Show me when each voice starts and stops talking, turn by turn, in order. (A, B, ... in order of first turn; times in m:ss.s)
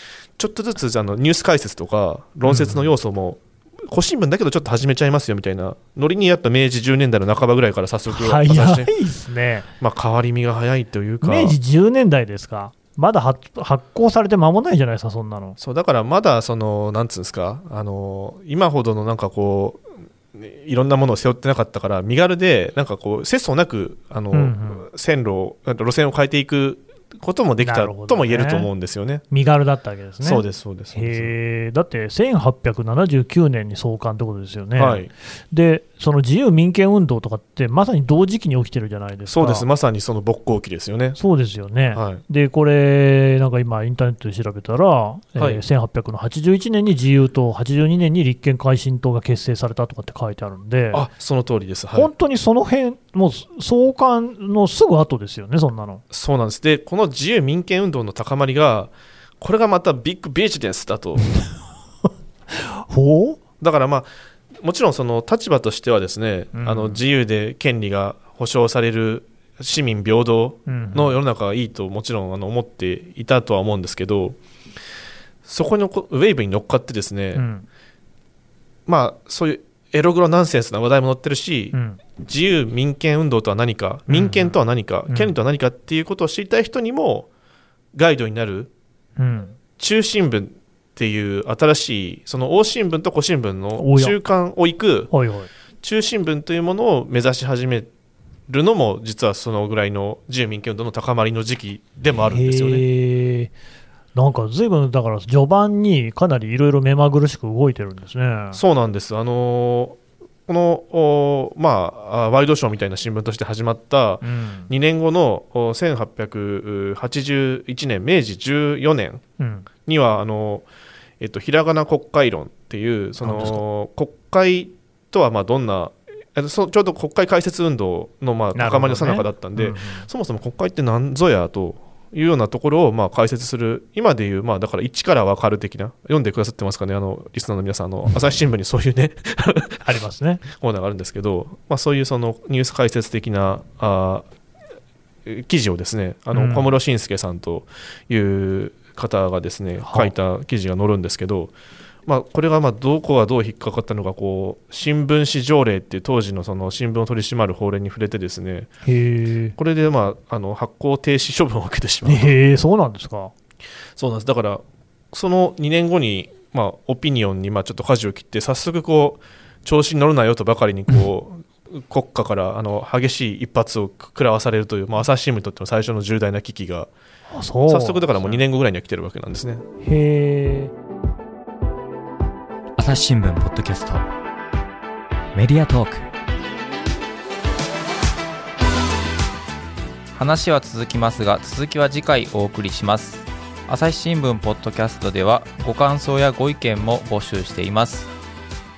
0:00.4-0:08.9 A
0:02.4-0:02.9 B
0:08.1-0:09.7 B
0:09.8-0:11.6 A
0:11.2-0:15.6 B
0:15.6-0:29.2 A
0:24.3-0:24.8 B
0:27.6-0:28.7 B
0:29.3-0:39.6 B
0:30.2-0:31.3 A
0:34.8-0:35.1 A
0:39.3-0:41.2 A
0:41.2-0:51.0 B
0:41.9-0:42.2 A
0:45.4-0:45.6 A
0:50.9-0:52.1 A
0:51.9-0:56.0 B
0:56.1-1:01.3 A
1:02.5-1:03.4 B
1:03.6-1:14.4 A
1:06.5-1:07.0 B
1:10.7-1:11.1 B
1:15.4-1:17.4 A
1:17.3-1:17.6 B
1:18.9-1:27.3 A
1:21.7-1:22.0 B
1:24.1-1:24.6 B
1:25.1-1:25.3 B
1:27.9-1:28.7 A
1:29.2-1:29.6 B
1:29.8-1:35.1 A
1:33.8-1:34.1 B
1:35.1-1:35.5 B
1:35.8-1:37.9 A
1:38.5-1:42.8 A
1:42.3-1:43.5 B
1:44.1-1:48.6 B
1:48.5-1:59.2 A
1:54.2-1:54.7 B
1:59.4-1:59.6 B
1:59.8-2:00.6 A
2:01.2-2:19.8 A
2:03.2-2:03.6 B
2:08.5-2:10.1 B
2:19.8-2:20.4 B
2:20.5-2:24.2 A
2:25.2-2:31.5 A
2:26.3-2:26.7 B
2:29.8-2:30.1 B
2:32.0-2:38.7 A
2:38.8-2:39.6 B
2:39.6-2:42.3 A
2:42.0-2:43.3 B
2:44.0-2:56.9 A
2:57.3-2:58.4 B
2:57.7-2:59.6 A
2:59.8-3:00.7 B
3:02.8-3:04.0 C
3:05.3-3:06.1 C
3:10.1-3:18.1 D